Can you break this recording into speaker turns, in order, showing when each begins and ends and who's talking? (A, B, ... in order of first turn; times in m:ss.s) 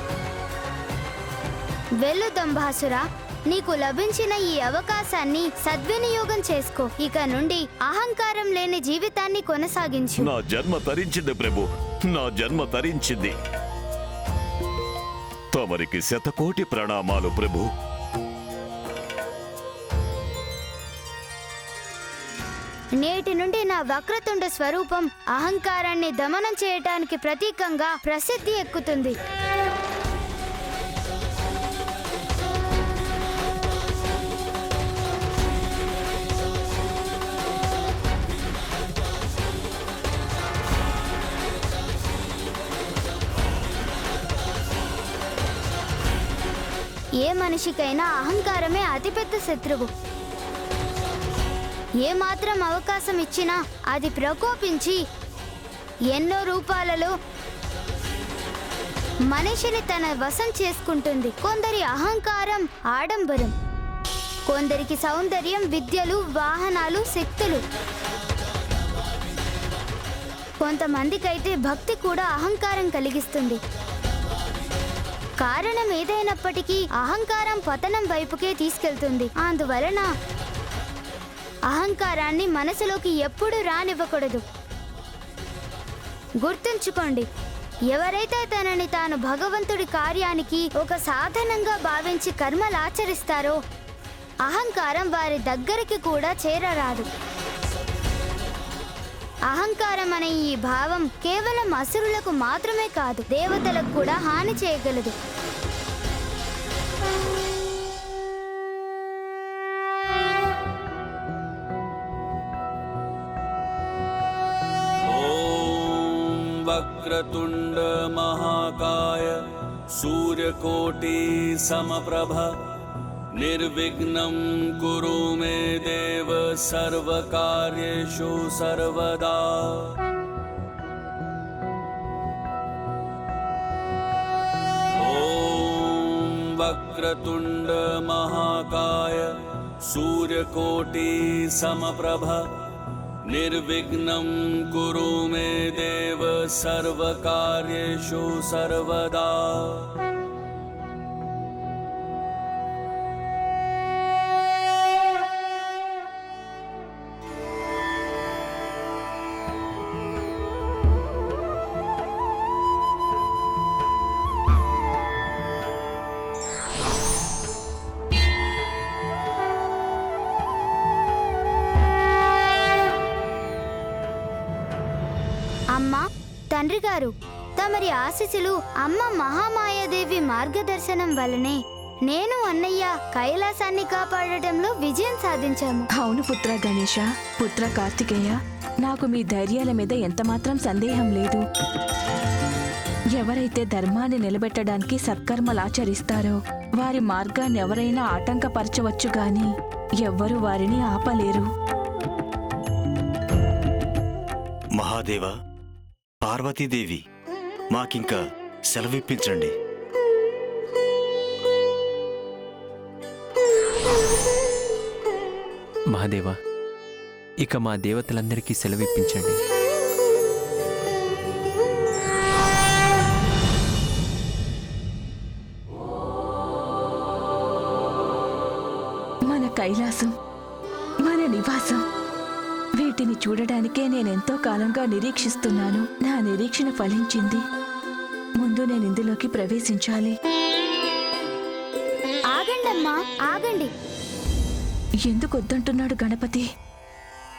0:02.0-0:10.3 A
0:10.2-0:13.3 B
0:15.5-0:17.7 B
0:23.0-0:29.1 A
0:47.2-0:49.9 A
0:52.0-0:55.0 A
0:56.1-0:57.1 A
0:59.3-1:03.5 A
1:04.5-1:07.6 A
1:10.6-1:13.6 A
1:15.4-1:20.1 A
1:21.7-1:24.4 A
1:26.4-1:27.3 A
1:27.9-1:33.6 A
1:34.4-1:37.0 A
1:39.5-1:45.1 A
1:55.0-1:59.4 C
1:59.9-2:02.5 C
2:03.4-2:09.9 C
2:15.0-2:22.4 C
2:23.3-2:29.9 C
2:55.7-3:05.9 A
3:06.0-3:11.4 D
3:13.1-3:21.5 D
3:24.8-3:25.3 E
3:26.2-3:27.0 E
3:27.7-3:29.5 E
3:35.9-3:36.3 F
3:37.4-3:39.4 F
3:49.3-3:50.1 D
3:51.0-3:51.8 D
3:52.8-3:57.4 D
3:58.4-4:00.1 D
4:02.3-4:03.7 A
4:05.0-4:06.4 D